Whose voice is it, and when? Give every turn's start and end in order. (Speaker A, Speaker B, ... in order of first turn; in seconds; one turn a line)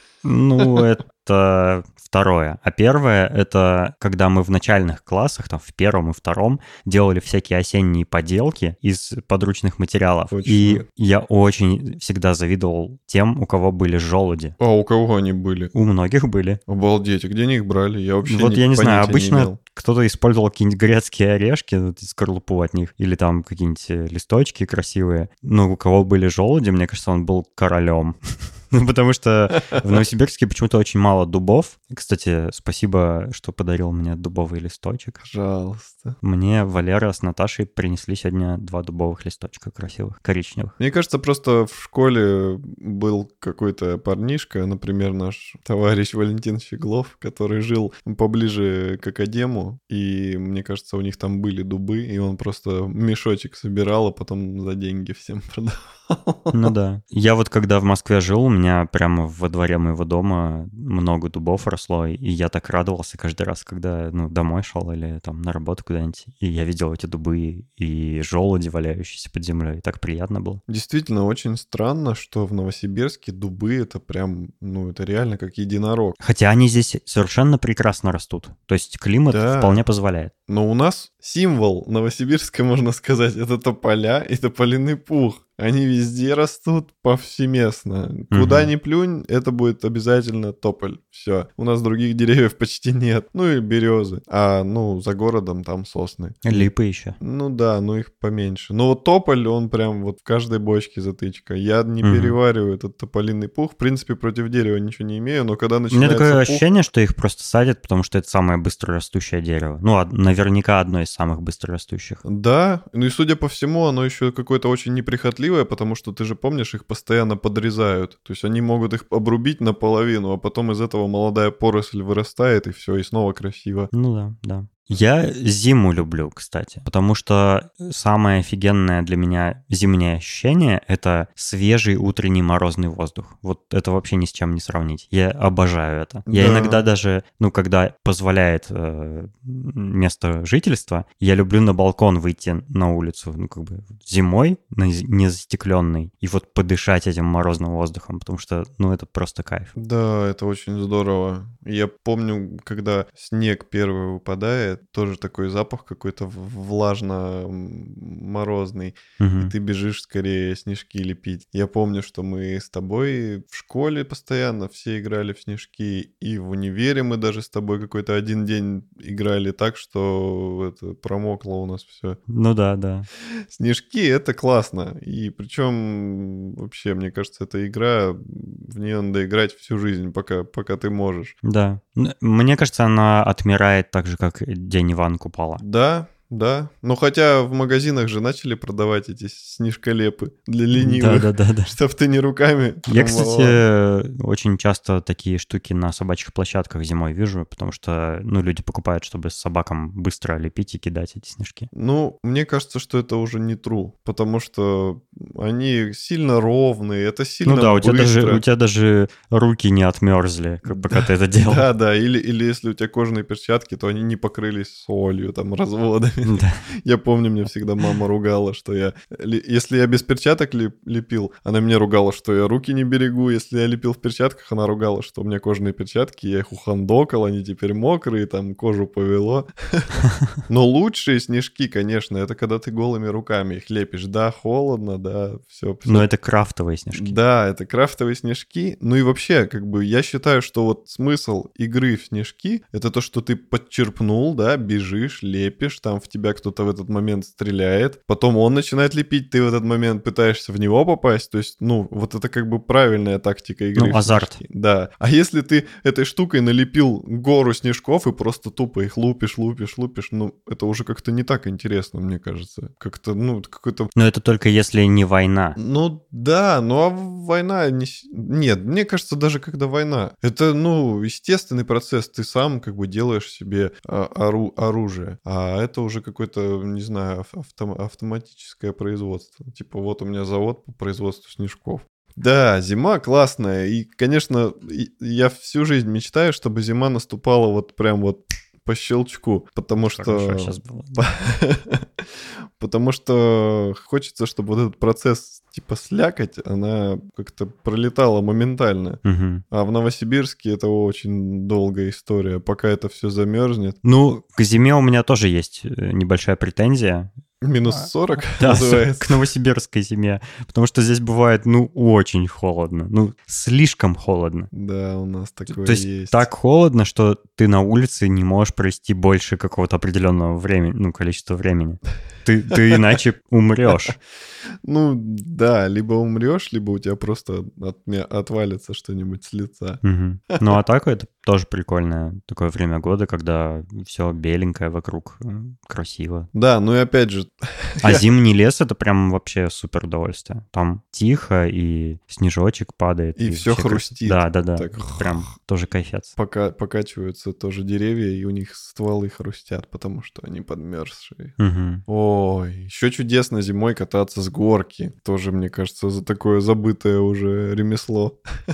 Speaker A: 0.2-14.6
Speaker B: 10.3-10.8
Speaker B: 14.6-15.7
Speaker A: 15.7-16.6
Speaker B: 16.7-19.6
Speaker A: 18.2-35.2
Speaker B: 35.2-36.2
Speaker A: 36.2-40.8
Speaker B: 40.8-56.7
Speaker A: 56.5-70.6
Speaker B: 70.7-76.2
Speaker A: 76.2-80.3
Speaker B: 79.3-79.8
Speaker B: 80.5-106.6
Speaker A: 88.3-88.7
Speaker A: 96.5-97.2
Speaker A: 102.0-102.4
Speaker A: 105.9-112.2
Speaker B: 112.2-123.9
Speaker A: 123.9-149.7
Speaker B: 136.3-136.8
Speaker B: 149.8-172.2
Speaker A: 159.2-159.5
Speaker A: 172.3-173.1
Speaker B: 173.5-181.4
Speaker A: 181.4-185.6
Speaker B: 185.6-193.6
Speaker A: 190.8-191.7
Speaker A: 192.9-201.7
Speaker B: 201.7-208.4
Speaker A: 207.4-211.7
Speaker B: 210.7-236.1
Speaker A: 216.2-216.6
Speaker A: 235.9-237.2
Speaker B: 236.9-263.9
Speaker A: 253.8-254.4
Speaker A: 263.9-265.6
Speaker B: 265.6-292.0
Speaker A: 289.8-291.1
Speaker B: 292.6-303.8
Speaker A: 299.0-299.4
Speaker A: 303.8-307.1
Speaker B: 307.4-309.3
Speaker A: 307.7-314.5
Speaker B: 314.5-316.3
Speaker A: 315.5-324.0
Speaker B: 324.6-330.4
Speaker A: 329.8-336.3
Speaker B: 336.3-338.0
Speaker A: 337.8-346.1
Speaker B: 343.1-345.3
Speaker B: 346.1-358.2
Speaker A: 351.4-351.8